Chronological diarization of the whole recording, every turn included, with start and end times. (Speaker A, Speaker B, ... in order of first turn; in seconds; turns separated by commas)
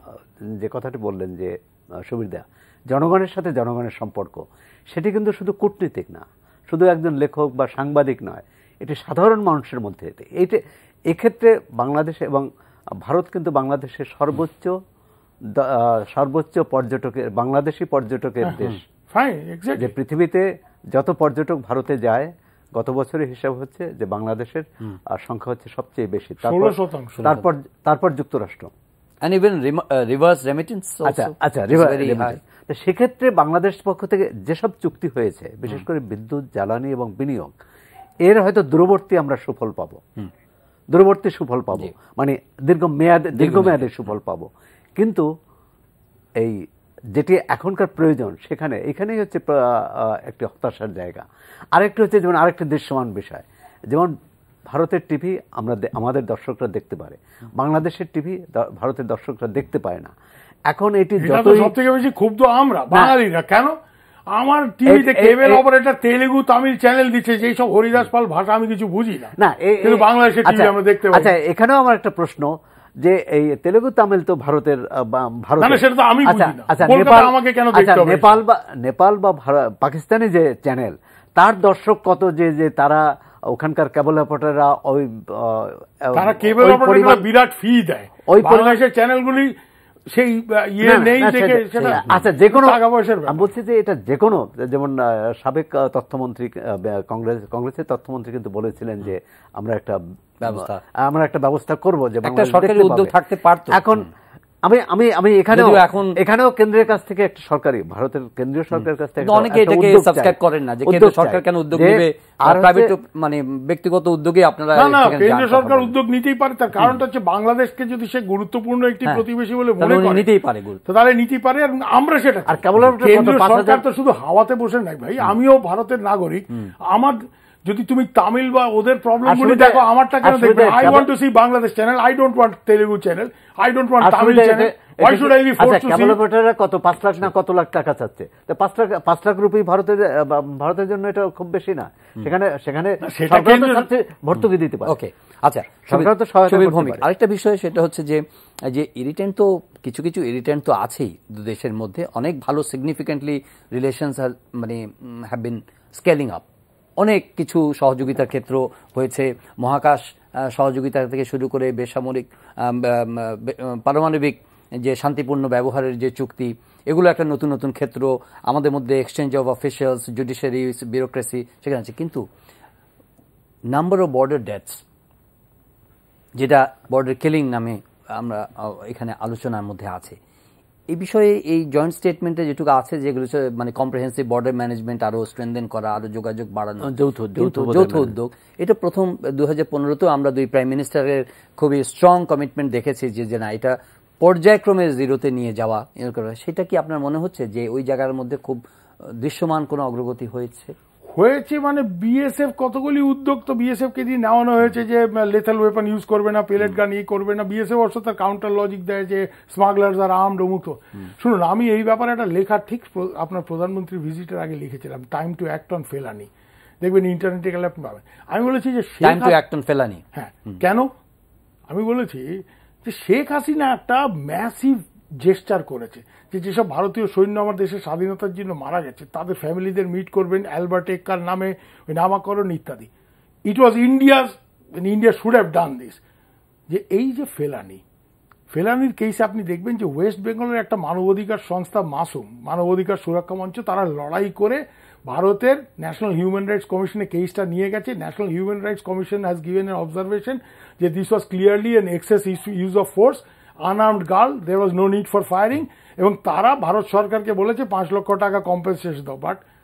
Speaker A: 0.4-12.5, Speaker A: 13.0-14.8, Speaker A: 15.5-18.8, Speaker B: 18.4-19.9, Speaker A: 19.8-28.7, Speaker B: 26.4-27.2, Speaker C: 29.2-32.4, Speaker A: 31.1-37.5, Speaker A: 38.2-40.0, Speaker A: 40.9-45.2, Speaker C: 43.4-43.8, Speaker A: 47.1-54.1, Speaker A: 54.7-60.1, Speaker A: 60.7-61.7, Speaker B: 61.2-63.7, Speaker A: 62.9-63.1, Speaker B: 64.3-71.3, Speaker A: 64.8-65.6, Speaker A: 69.4-87.2, Speaker B: 75.6-78.3, Speaker B: 86.1-89.5, Speaker A: 88.3-88.8, Speaker B: 90.1-93.5, Speaker A: 90.8-103.1, Speaker C: 91.8-92.2, Speaker C: 100.4-100.8, Speaker C: 102.2-103.8, Speaker A: 103.7-104.1, Speaker A: 104.6-112.9, Speaker C: 105.5-106.2, Speaker C: 109.2-115.9, Speaker B: 114.8-120.3, Speaker C: 119.8-120.8, Speaker B: 120.8-136.2, Speaker A: 122.5-123.8, Speaker A: 129.2-131.1, Speaker A: 134.0-144.9, Speaker B: 143.0-143.9, Speaker C: 144.9-156.4, Speaker A: 145.9-147.0, Speaker C: 157.0-172.2, Speaker C: 173.7-174.8, Speaker C: 176.4-180.2, Speaker C: 180.9-198.6, Speaker A: 186.9-188.1, Speaker C: 199.1-200.7, Speaker B: 201.1-216.3, Speaker B: 216.8-219.4, Speaker C: 219.0-220.6, Speaker B: 220.1-220.9, Speaker B: 221.7-232.9, Speaker B: 233.5-236.0, Speaker B: 236.7-237.8, Speaker B: 238.5-259.4